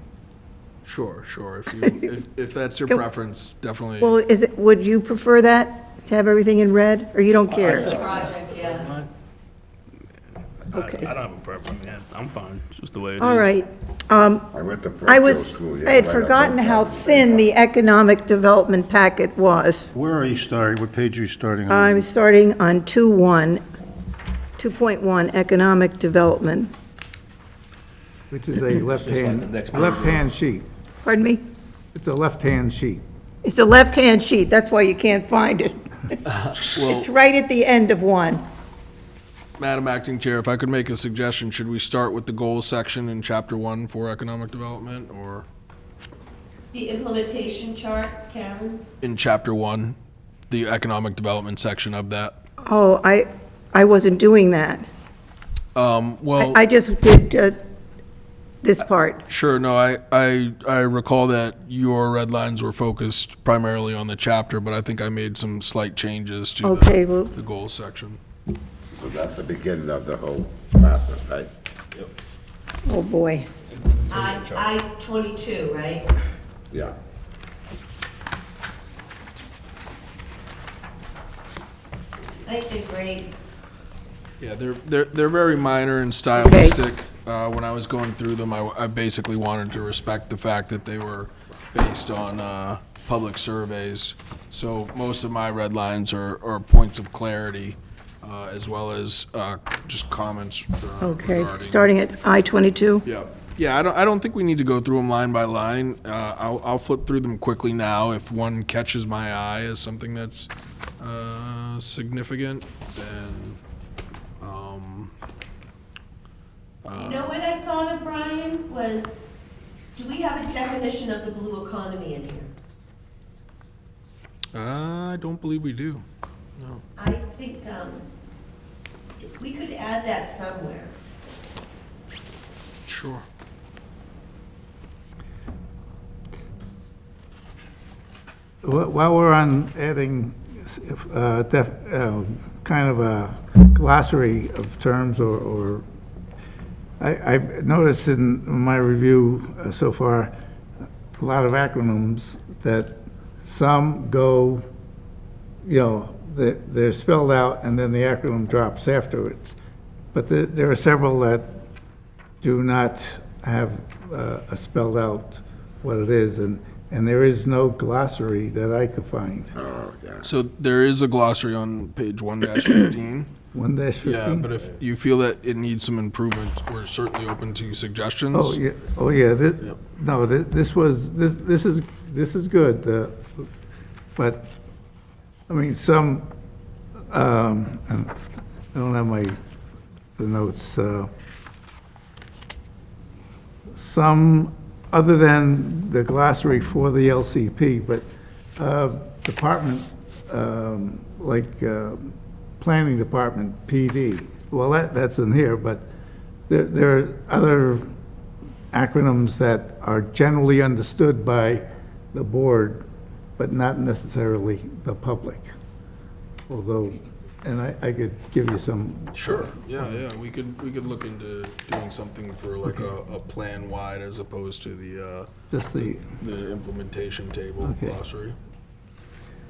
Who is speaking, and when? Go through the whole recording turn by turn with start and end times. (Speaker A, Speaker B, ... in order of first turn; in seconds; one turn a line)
Speaker A: 0.8-4.2
Speaker B: 4.0-8.0
Speaker C: 7.6-8.9
Speaker D: 7.6-9.1
Speaker E: 7.8-8.3
Speaker D: 10.7-13.5
Speaker B: 10.7-11.1
Speaker B: 13.2-14.5
Speaker E: 14.5-17.4
Speaker B: 15.0-19.9
Speaker F: 19.9-22.1
Speaker B: 21.7-23.6
Speaker B: 24.6-26.7
Speaker G: 28.3-30.6
Speaker D: 28.9-30.3
Speaker B: 31.0-31.4
Speaker G: 31.9-33.0
Speaker B: 33.4-36.2
Speaker A: 36.2-37.1
Speaker B: 36.8-38.4
Speaker A: 39.6-45.5
Speaker C: 46.7-48.8
Speaker A: 49.0-49.9
Speaker A: 50.5-52.4
Speaker B: 52.6-54.8
Speaker A: 55.7-56.6
Speaker B: 56.4-57.6
Speaker B: 58.6-59.2
Speaker A: 59.3-68.2
Speaker B: 66.6-67.3
Speaker E: 69.0-71.5
Speaker B: 72.8-73.5
Speaker D: 74.1-74.7
Speaker C: 74.1-76.1
Speaker E: 76.7-77.0
Speaker C: 82.4-83.3
Speaker A: 84.4-101.9
Speaker B: 86.4-86.8
Speaker B: 101.0-103.0
Speaker A: 103.0-113.6
Speaker A: 114.4-115.1
Speaker A: 116.8-117.3
Speaker C: 116.9-119.3
Speaker C: 119.9-122.5
Speaker A: 124.5-126.0
Speaker A: 126.6-126.8
Speaker C: 127.0-128.1
Speaker C: 129.2-130.9
Speaker A: 132.8-133.2
Speaker G: 138.6-145.8
Speaker G: 147.0-150.3
Speaker G: 151.2-154.6
Speaker G: 155.6-159.6
Speaker G: 160.1-161.6
Speaker G: 162.4-169.5
Speaker E: 169.6-170.3
Speaker A: 170.2-173.3
Speaker G: 173.5-174.5
Speaker A: 174.0-178.6
Speaker G: 178.3-183.5
Speaker G: 184.2-184.6
Speaker G: 185.5-186.3
Speaker G: 187.1-188.1
Speaker G: 188.7-189.4
Speaker G: 190.2-191.1
Speaker G: 193.7-205.9
Speaker G: 206.5-207.9
Speaker G: 208.7-212.8
Speaker G: 213.4-215.5
Speaker G: 216.5-220.0
Speaker A: 219.1-228.3
Speaker G: 225.5-226.0
Speaker G: 227.6-228.0